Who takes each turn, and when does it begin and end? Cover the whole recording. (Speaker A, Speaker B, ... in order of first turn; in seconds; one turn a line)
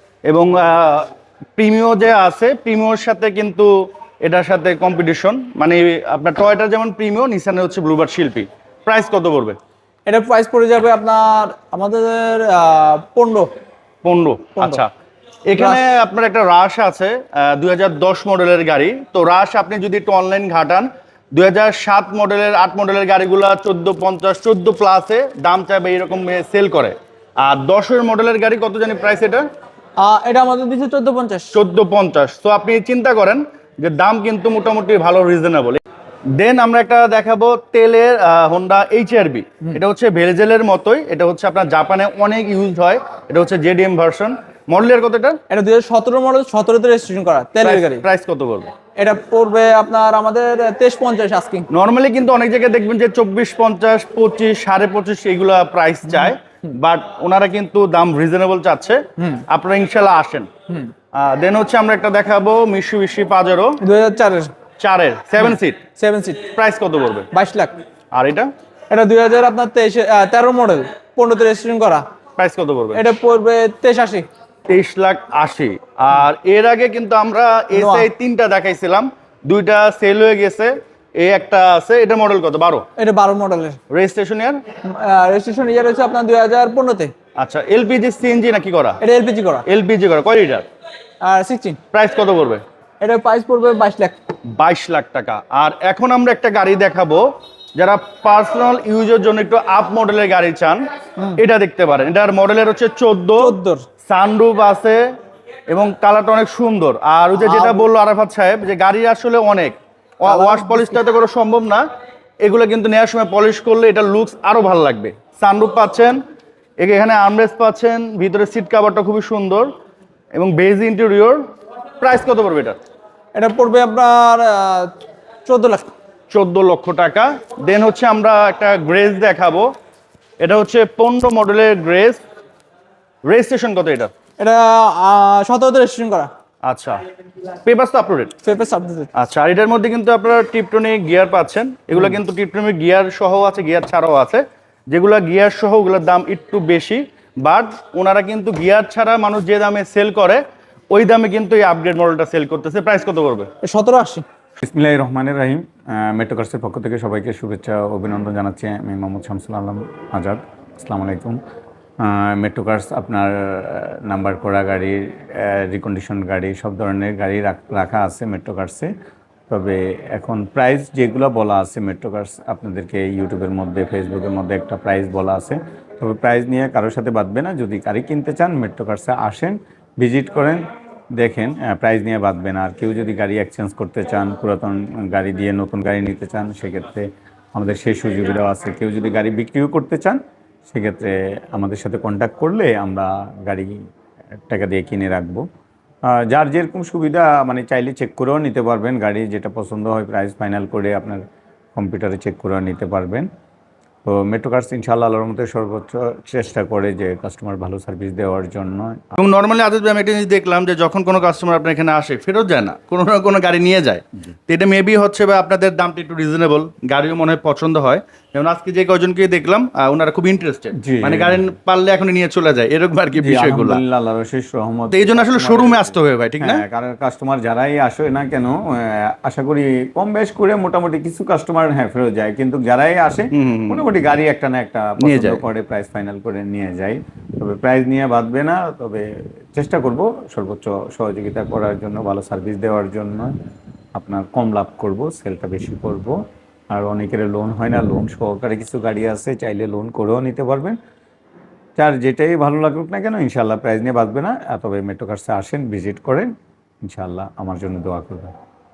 Speaker A: 0.2-9.6
Speaker B: 10.1-13.5
Speaker A: 14.0-14.9
Speaker B: 14.6-14.8
Speaker A: 15.5-29.5
Speaker B: 15.6-15.8
Speaker B: 30.0-31.6
Speaker A: 31.5-35.8
Speaker A: 36.4-45.4
Speaker B: 45.5-48.0
Speaker A: 47.6-48.7
Speaker B: 49.0-51.7
Speaker A: 51.7-60.5
Speaker B: 56.1-56.3
Speaker A: 61.1-63.8
Speaker B: 63.8-64.5
Speaker A: 64.8-65.8
Speaker B: 65.4-66.4
Speaker A: 66.5-67.3
Speaker B: 67.3-67.8
Speaker A: 68.1-68.5
Speaker B: 68.9-72.0
Speaker A: 72.4-73.1
Speaker B: 72.9-74.2
Speaker A: 74.7-82.8
Speaker B: 77.7-78.1
Speaker B: 83.0-83.8
Speaker A: 83.9-84.6
Speaker B: 84.8-87.1
Speaker A: 87.4-89.0
Speaker B: 89.0-89.6
Speaker A: 89.7-90.7
Speaker B: 91.2-91.8
Speaker A: 91.9-92.6
Speaker B: 93.0-94.2
Speaker A: 94.5-100.8
Speaker A: 101.4-103.5
Speaker B: 103.4-103.8
Speaker A: 104.0-105.0
Speaker A: 105.7-111.8
Speaker B: 107.3-107.9
Speaker B: 110.2-111.0
Speaker A: 112.4-116.2
Speaker A: 116.8-119.7
Speaker A: 120.3-121.4
Speaker A: 122.0-122.8
Speaker B: 123.3-124.9
Speaker B: 125.5-125.9
Speaker A: 126.3-129.7
Speaker A: 130.4-132.2
Speaker A: 133.2-134.1
Speaker B: 134.4-136.3
Speaker A: 136.6-137.0
Speaker A: 137.6-138.3
Speaker B: 138.4-139.1
Speaker A: 139.1-153.5
Speaker B: 153.6-154.2
Speaker C: 154.6-161.4
Speaker C: 162.0-168.9
Speaker C: 169.5-193.8
Speaker C: 194.5-195.4
Speaker C: 196.1-201.2
Speaker C: 201.7-203.3
Speaker C: 204.0-209.2
Speaker A: 209.2-223.8
Speaker C: 220.8-221.4
Speaker C: 223.2-243.3
Speaker A: 224.9-226.6
Speaker A: 233.3-233.8
Speaker A: 235.0-235.4
Speaker C: 243.9-246.2
Speaker C: 246.7-250.8
Speaker C: 251.8-256.3
Speaker C: 256.8-258.3